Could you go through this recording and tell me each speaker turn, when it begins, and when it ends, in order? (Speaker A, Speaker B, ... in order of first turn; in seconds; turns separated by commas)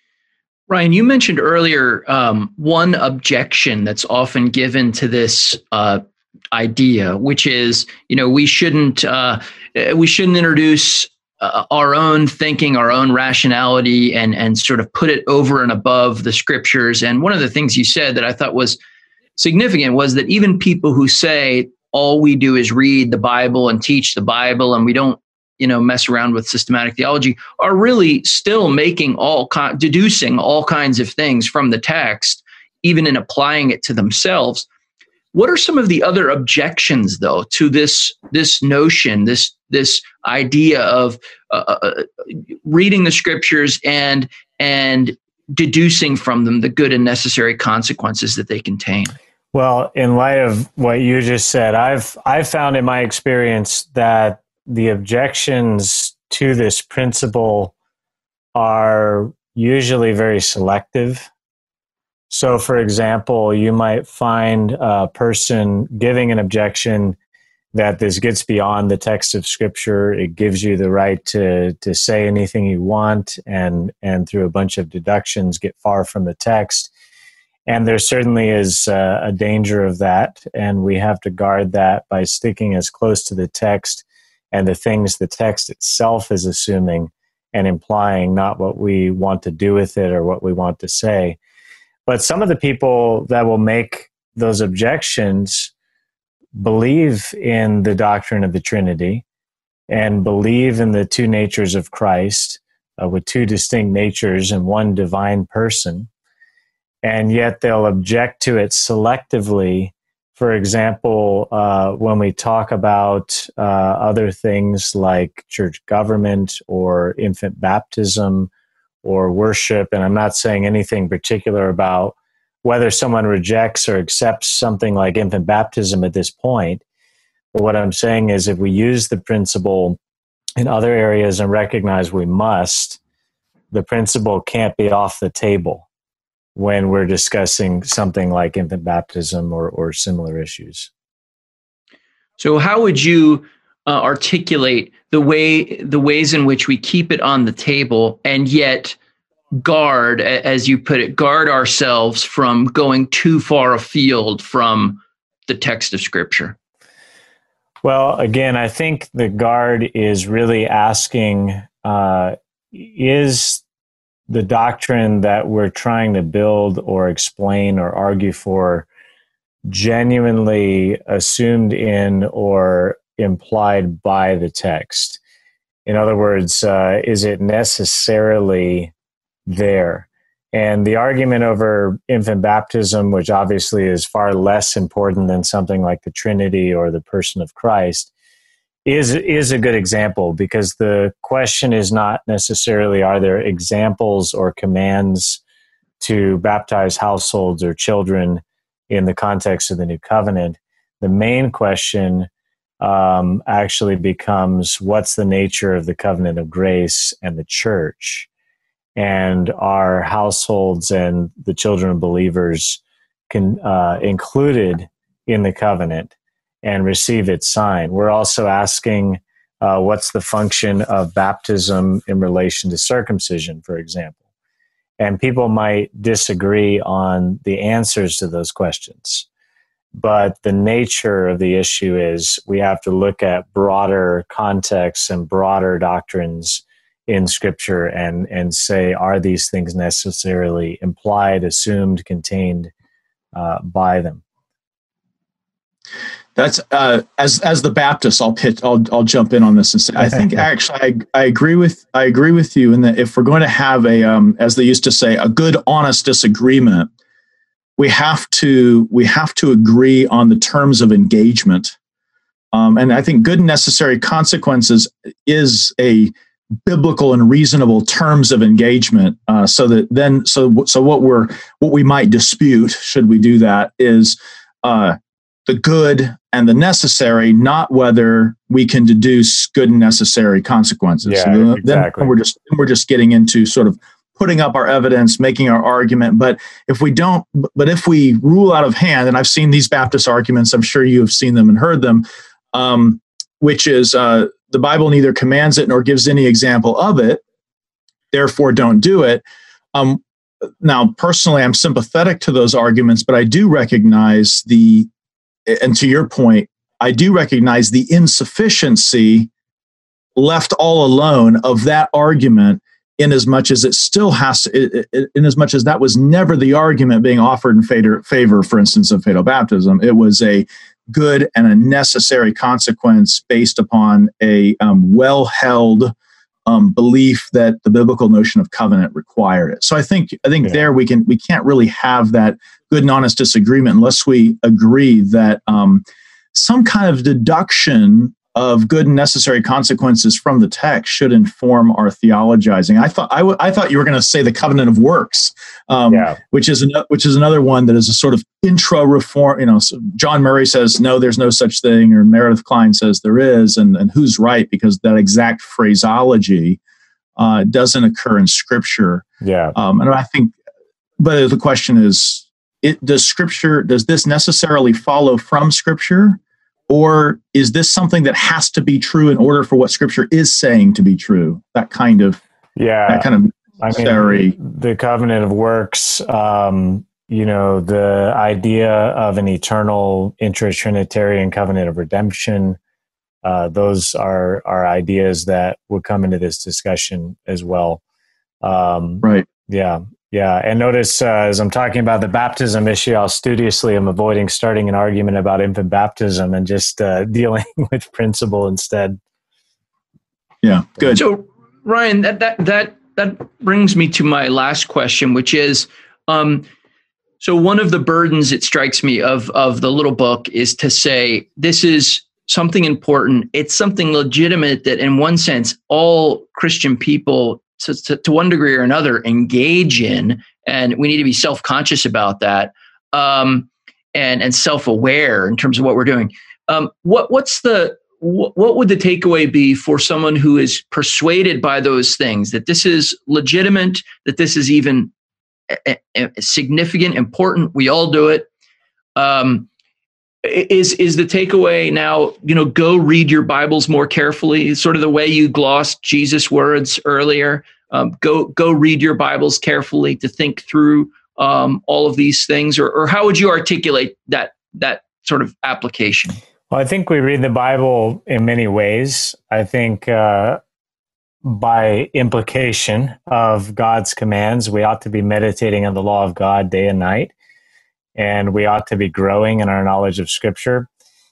Speaker A: 0.7-18.8, Speaker A: 19.4-34.7, Speaker A: 35.3-49.1, Speaker B: 49.5-57.7, Speaker B: 58.5-61.3, Speaker B: 62.3-67.2, Speaker B: 67.8-76.9, Speaker B: 77.7-91.4, Speaker B: 92.1-95.7, Speaker B: 96.5-99.2, Speaker B: 99.9-106.1, Speaker B: 107.0-118.5, Speaker B: 119.0-126.8, Speaker B: 127.5-130.0, Speaker B: 130.6-133.0, Speaker B: 133.7-135.9, Speaker B: 136.6-140.9, Speaker A: 142.4-149.0, Speaker A: 149.6-156.6, Speaker B: 157.8-163.6, Speaker B: 164.3-168.9, Speaker B: 169.7-175.2, Speaker B: 175.9-178.9, Speaker B: 179.5-188.1, Speaker B: 188.9-195.4, Speaker B: 196.0-202.3, Speaker B: 202.8-208.3, Speaker B: 209.0-216.1, Speaker B: 216.6-224.2, Speaker B: 225.0-229.3, Speaker B: 230.0-242.7, Speaker B: 243.3-244.2, Speaker C: 246.4-256.9, Speaker C: 257.8-261.8, Speaker C: 262.5-266.1, Speaker C: 266.6-297.2, Speaker B: 281.1-282.1, Speaker C: 298.1-299.2, Speaker C: 299.7-300.0, Speaker C: 300.6-304.9, Speaker C: 305.5-309.3, Speaker C: 310.2-325.9, Speaker C: 326.5-335.8, Speaker C: 336.3-356.6, Speaker B: 345.9-346.2, Speaker C: 357.2-360.3, Speaker B: 359.2-359.6, Speaker C: 361.0-372.2, Speaker B: 372.6-373.1, Speaker C: 372.9-374.4, Speaker B: 373.6-382.6, Speaker B: 383.2-387.8, Speaker B: 388.4-399.0, Speaker C: 400.4-401.0, Speaker A: 400.9-406.5, Speaker A: 407.2-434.9, Speaker A: 435.5-438.3, Speaker A: 439.0-439.5, Speaker A: 440.2-456.2, Speaker B: 456.5-460.4, Speaker B: 461.2-467.1, Speaker B: 468.0-470.7